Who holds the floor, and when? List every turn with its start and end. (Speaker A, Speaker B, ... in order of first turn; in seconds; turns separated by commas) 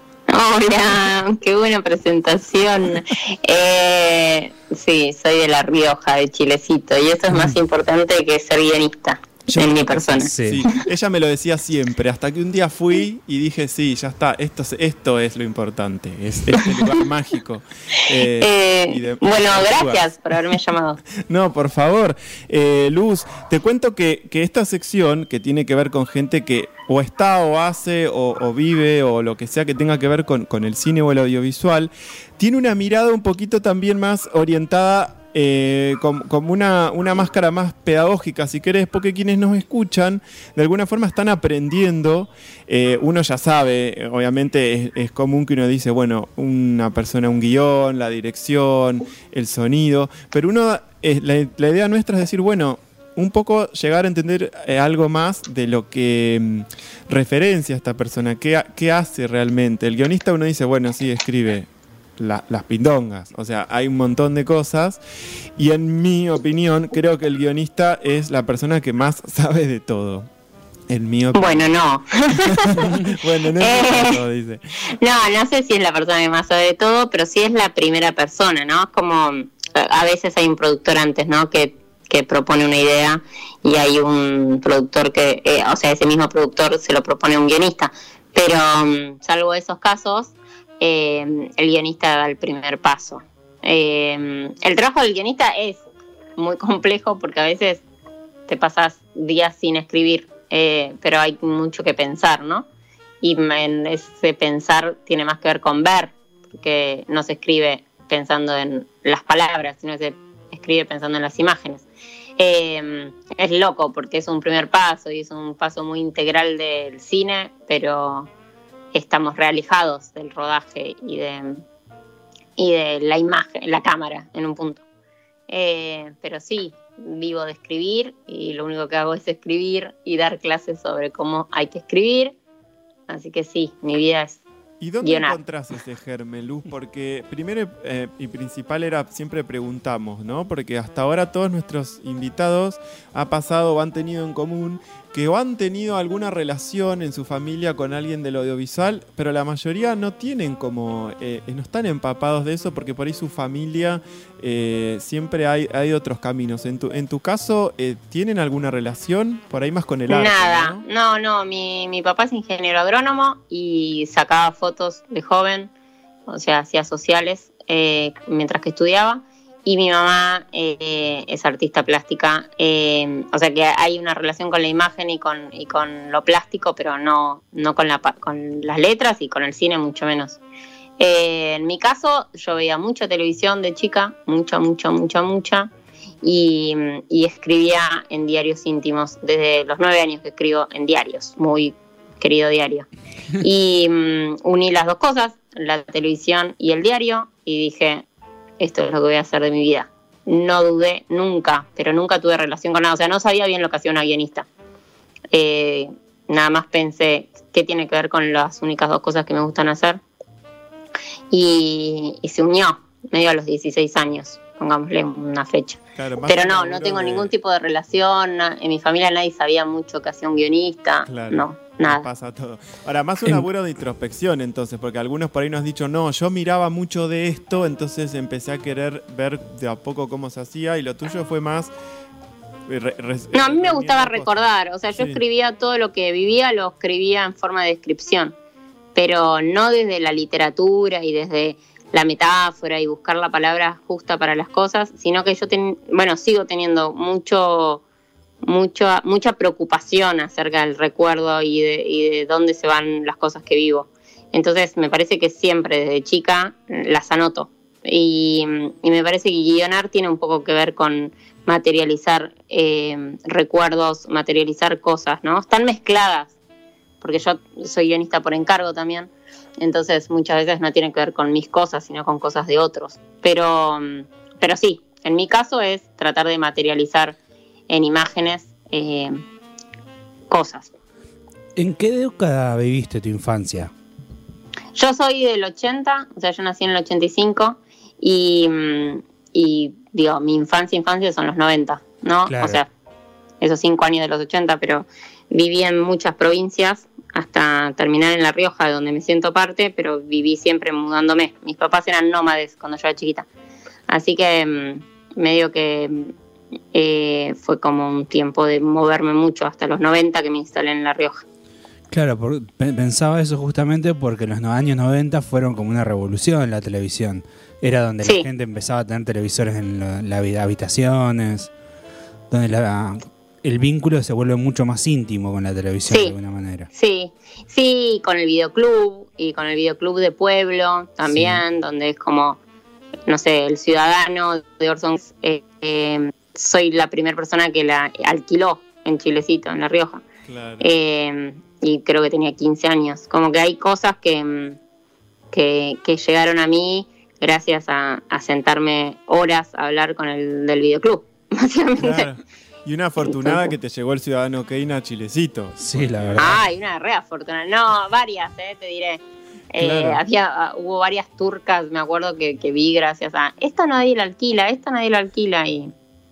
Speaker A: 0.3-10.8, Speaker B: 9.6-20.1, Speaker C: 10.1-10.6, Speaker A: 16.6-16.9, Speaker A: 18.4-21.0, Speaker B: 21.2-65.0, Speaker B: 65.6-70.3, Speaker B: 70.9-71.7, Speaker A: 71.3-73.1, Speaker B: 72.5-74.6, Speaker A: 73.6-74.2, Speaker A: 75.0-95.8, Speaker A: 96.3-97.8, Speaker A: 98.5-102.7, Speaker A: 103.2-111.8, Speaker A: 112.4-118.3, Speaker A: 118.9-121.6, Speaker A: 122.6-124.8, Speaker A: 125.5-132.3, Speaker A: 133.1-134.4, Speaker B: 134.8-160.8, Speaker A: 135.0-135.4, Speaker A: 160.1-165.7, Speaker A: 166.3-180.4, Speaker A: 181.0-185.7, Speaker A: 186.2-192.9, Speaker A: 193.4-198.0, Speaker A: 198.6-204.4, Speaker A: 205.3-210.0, Speaker A: 211.3-222.0, Speaker B: 215.9-217.3, Speaker B: 221.1-231.7, Speaker B: 232.7-235.2, Speaker A: 233.3-238.3, Speaker A: 238.9-247.8, Speaker A: 248.4-266.3, Speaker A: 267.0-277.2, Speaker A: 277.7-279.2, Speaker A: 280.3-280.7, Speaker C: 281.6-283.7, Speaker A: 284.7-292.7, Speaker C: 292.3-292.6, Speaker A: 293.4-303.2, Speaker A: 303.9-306.1, Speaker A: 306.7-311.2, Speaker C: 311.9-321.5, Speaker C: 322.3-326.7, Speaker A: 325.9-326.1, Speaker A: 326.7-332.4, Speaker C: 331.1-331.4, Speaker A: 333.1-340.0, Speaker B: 340.2-340.7, Speaker A: 340.6-344.6, Speaker A: 345.3-352.1, Speaker B: 351.8-356.4, Speaker A: 353.0-353.5, Speaker C: 355.6-356.4, Speaker A: 356.1-359.0, Speaker A: 359.5-365.7, Speaker B: 359.5-360.0